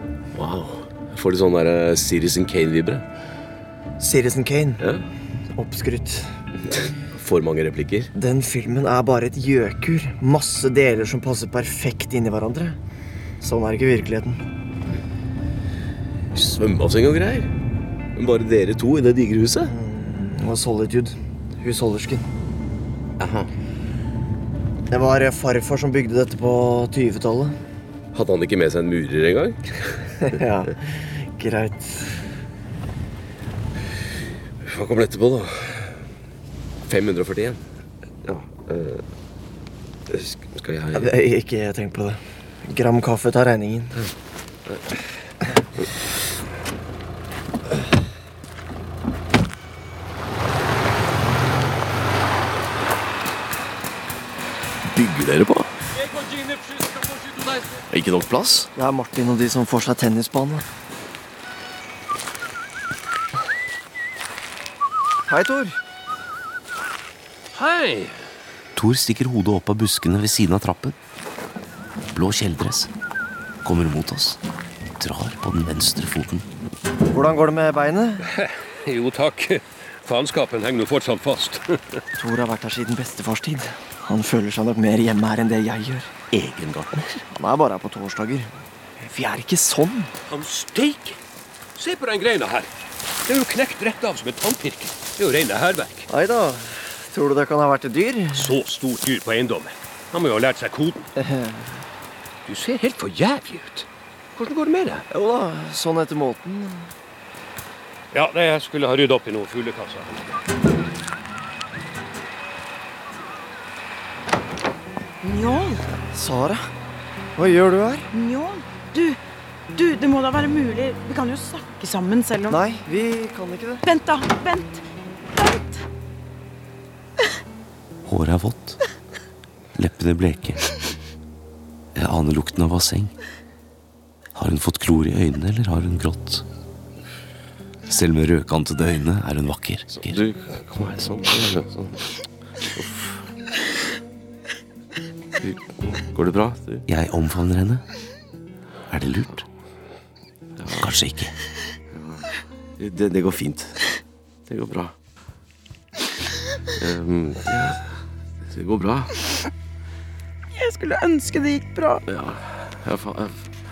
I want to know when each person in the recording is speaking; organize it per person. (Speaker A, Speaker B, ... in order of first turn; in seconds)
Speaker A: 0.3-3.0, 4.8-5.0, 7.1-8.1, 16.3-17.5, 18.1-19.7, 23.2-23.5, 28.1-30.0, 34.6-36.0, 36.9-37.6, 38.2-39.0, 40.1-41.1, 57.9-58.7, 139.9-142.0, 142.8-143.2, 146.1-146.8, 150.6-150.9, 151.9-152.2, 152.8-153.8, 154.5-154.9, 156.8-157.8, 158.5-159.1, 162.1-163.4
Speaker B: 4.0-4.8, 5.5-6.3, 8.2-12.8, 13.4-14.4, 19.7-22.3, 24.9-27.6, 30.2-32.1, 40.9-44.0, 58.8-60.6, 65.3-65.8, 77.1-78.2, 82.2-86.1, 87.3-90.1, 96.1-98.6, 101.2-101.8, 105.1-106.9, 116.1-116.7, 117.4-118.1, 122.5-123.8
Speaker C: 56.1-57.4, 67.5-68.2, 78.3-81.8, 90.3-91.2, 91.8-92.7, 93.2-96.1, 98.3-101.0, 102.5-105.0, 108.1-110.2
Speaker D: 68.8-71.0, 72.1-72.9, 73.6-74.4, 75.0-76.5, 86.3-87.1, 128.1-128.8, 129.8-130.7, 131.9-133.1, 134.3-136.4, 137.9-140.2, 146.9-147.8, 148.9-149.4, 150.8-151.3
Speaker E: 115.2-115.8, 118.1-119.2, 119.7-122.6, 123.9-124.8, 125.3-125.8, 160.5-162.0